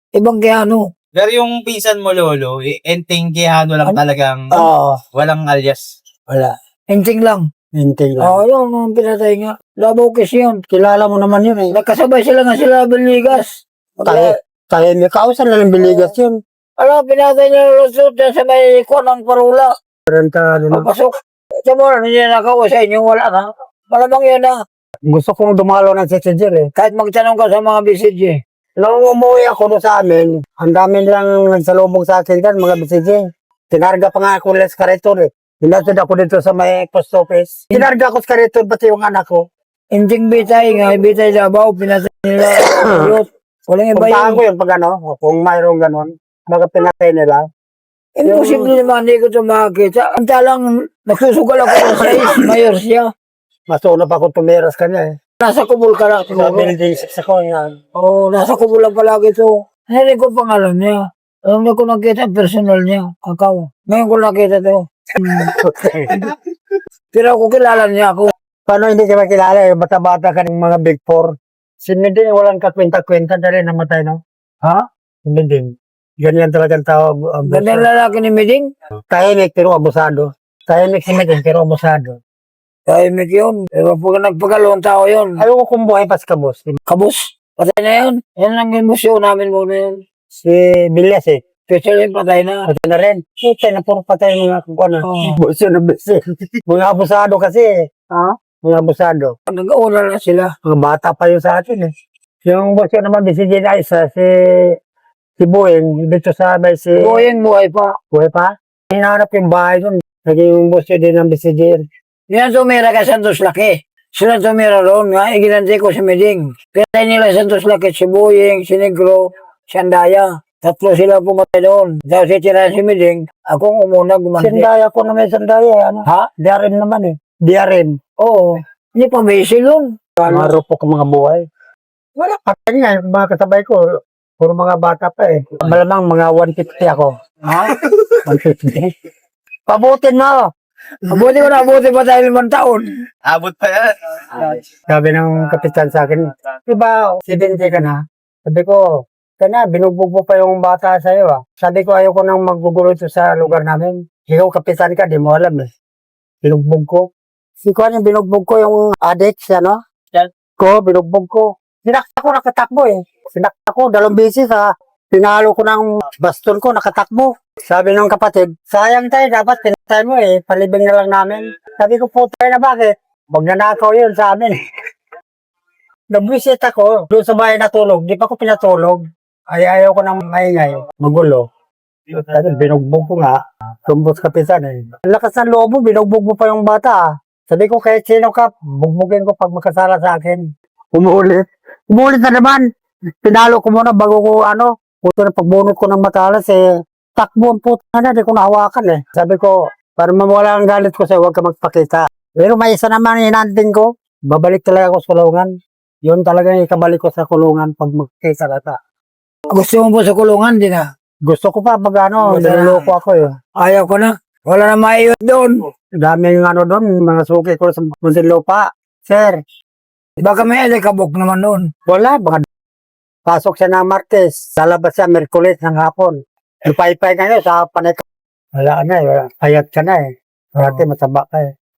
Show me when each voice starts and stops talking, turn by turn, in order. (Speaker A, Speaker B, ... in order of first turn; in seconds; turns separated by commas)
Speaker A: 0.1-0.8, Speaker B: 1.1-5.9, Speaker C: 4.5-5.0, Speaker A: 6.3-7.5, Speaker C: 7.7-8.4, Speaker A: 8.2-10.6, Speaker C: 10.7-11.8, Speaker A: 11.7-14.4, Speaker C: 14.0-16.4, Speaker A: 16.8-19.7, Speaker C: 20.1-20.9, Speaker A: 20.7-24.6, Speaker C: 25.1-26.7, Speaker A: 26.7-28.4, Speaker C: 28.8-39.4, Speaker A: 39.9-44.4, Speaker C: 42.5-43.2, Speaker C: 43.9-47.5, Speaker A: 48.1-53.1, Speaker C: 48.2-48.8, Speaker C: 53.7-55.2, Speaker A: 55.4-56.7, Speaker C: 56.3-57.8, Speaker A: 58.0-65.5, Speaker C: 65.3-66.2, Speaker A: 67.1-68.3, Speaker C: 68.7-74.2, Speaker C: 75.2-77.9, Speaker A: 77.5-78.7, Speaker C: 79.1-82.2, Speaker A: 82.9-85.4, Speaker C: 85.4-86.8, Speaker A: 86.8-90.0, Speaker C: 90.3-91.4, Speaker A: 91.7-92.7, Speaker C: 92.7-99.3, Speaker A: 95.0-95.4, Speaker A: 99.5-100.5, Speaker C: 100.6-101.9, Speaker C: 102.4-104.8, Speaker C: 105.4-107.2, Speaker A: 107.0-108.0, Speaker C: 108.1-111.8, Speaker A: 112.3-124.7, Speaker C: 124.4-128.0, Speaker A: 128.2-130.5, Speaker C: 130.3-131.4, Speaker C: 132.2-137.2, Speaker C: 138.2-138.9, Speaker C: 139.7-140.5, Speaker A: 141.0-142.9, Speaker B: 143.2-144.4, Speaker C: 144.9-148.8, Speaker C: 149.4-155.7, Speaker C: 156.4-157.1, Speaker C: 157.6-174.6, Speaker C: 176.1-181.4, Speaker C: 182.1-192.7, Speaker C: 193.2-196.6, Speaker C: 197.2-205.5, Speaker C: 206.0-208.8, Speaker A: 209.5-210.9, Speaker C: 211.2-213.3, Speaker A: 212.2-212.9, Speaker A: 213.6-215.6, Speaker C: 216.0-219.4, Speaker A: 220.2-221.7, Speaker C: 221.9-222.4, Speaker C: 223.2-228.0, Speaker C: 228.5-231.5